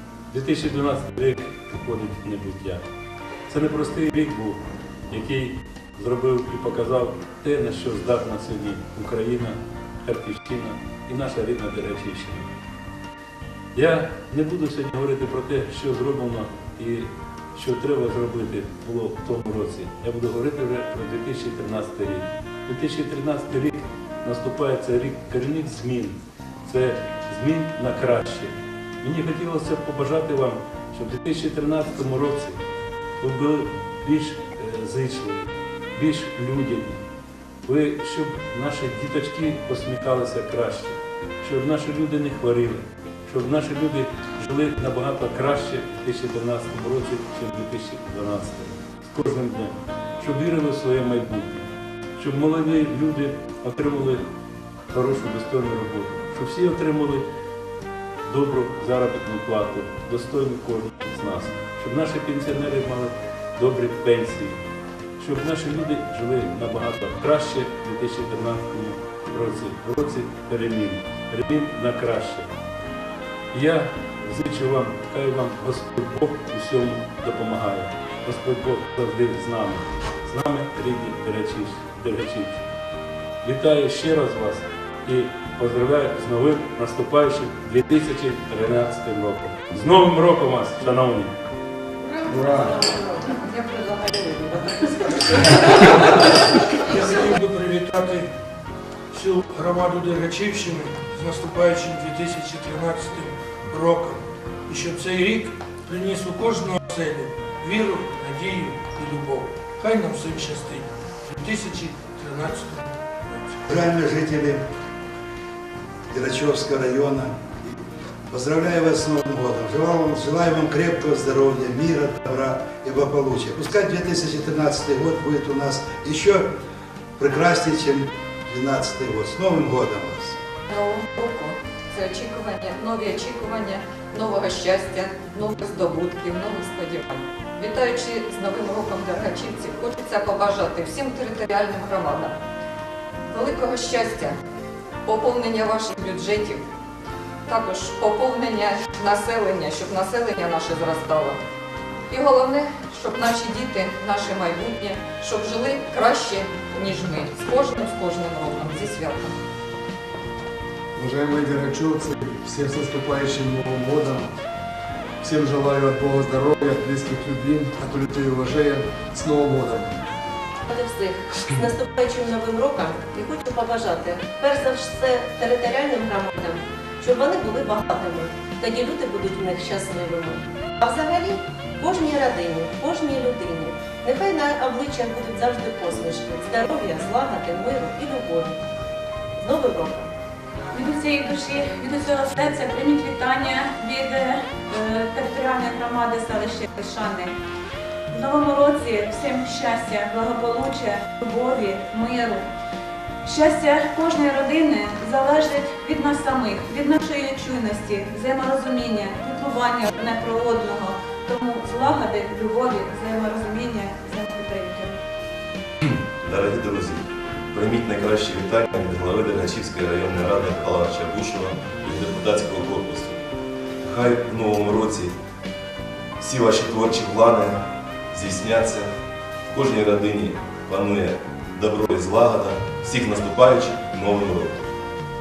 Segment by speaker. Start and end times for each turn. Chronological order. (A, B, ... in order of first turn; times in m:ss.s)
0:00.3-0:02.8 A
0:03.5-0:04.6 A
0:05.1-0:12.5 A
0:13.8-0:32.6 A
0:33.2-0:37.0 A
0:37.6-0:54.2 A
0:54.9-0:57.2 A
0:58.2-1:04.6 A
1:05.2-1:12.5 A
1:13.5-1:22.6 A
1:23.4-1:31.4 A
1:33.4-1:34.7 B
1:36.9-1:38.3 C
1:39.1-1:53.6 C
1:53.7-1:54.6 D
1:56.1-1:57.7 D
1:58.3-2:06.5 D
2:07.2-2:10.4 D
2:10.7-2:22.3 B
2:23.3-2:24.4 B
2:25.0-2:26.6 B
2:27.5-2:31.4 B
2:32.1-2:39.4 B
2:41.0-2:44.3 E
2:45.2-2:49.9 E
2:50.7-3:08.6 F
3:09.4-3:10.0 F
3:10.7-3:17.4 G
3:18.1-3:22.5 G
3:23.2-3:35.0 G
3:35.9-3:43.2 H
3:43.8-3:45.2 H
3:46.2-3:48.9 H
3:49.5-3:54.6 H